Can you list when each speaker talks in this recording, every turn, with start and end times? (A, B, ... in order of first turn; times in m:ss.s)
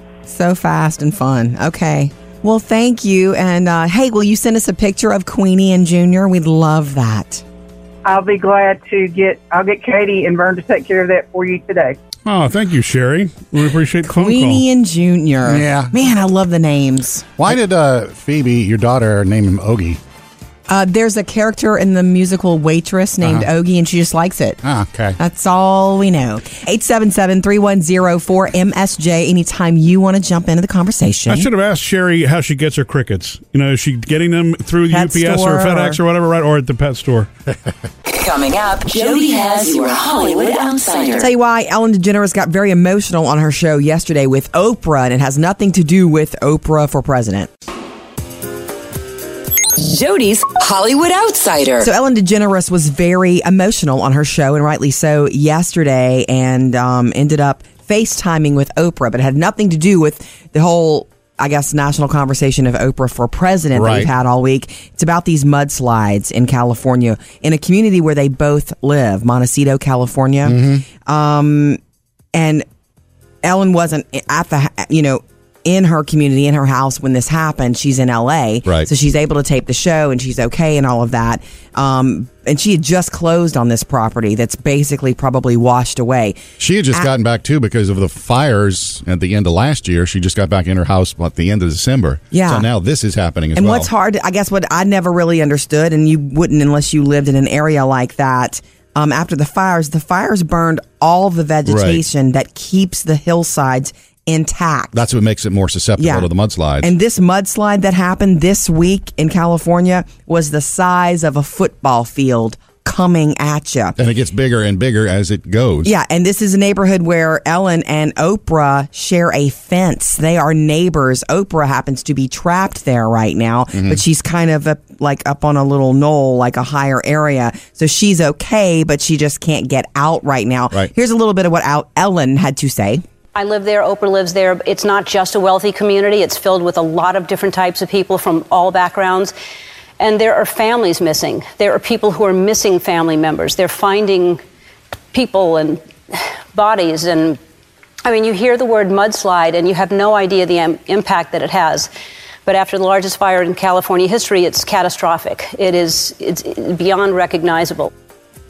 0:00.3-0:07.4 A
0:08.0-0:12.0 B
0:12.3-0:14.6 C
0:14.0-0:17.4 A
0:15.4-0:15.9 D
0:17.4-0:20.0 D
0:20.7-0:24.6 A
0:23.2-0:23.5 D
0:24.6-0:25.2 D
0:25.2-0:31.5 A
0:31.3-0:37.3 C
0:34.9-0:36.0 A
0:38.1-0:41.3 E
0:41.2-0:47.5 A
0:49.8-0:51.9 E
0:51.8-1:11.8 A
1:03.7-1:04.1 D
1:10.4-1:10.8 D
1:12.3-1:12.6 A
1:13.4-1:27.1 A
1:26.6-1:33.9 D
1:32.3-1:32.7 A
1:33.6-1:45.0 A
1:41.7-1:42.0 D
1:44.9-1:46.9 D
1:46.0-1:46.3 A
1:46.8-1:54.0 A
1:54.0-1:55.9 D
1:55.8-2:13.0 A
2:03.7-2:04.0 D
2:13.4-2:19.3 F
2:20.0-2:24.4 F
2:25.1-2:27.4 F
2:28.0-2:31.9 F
2:32.5-2:37.9 F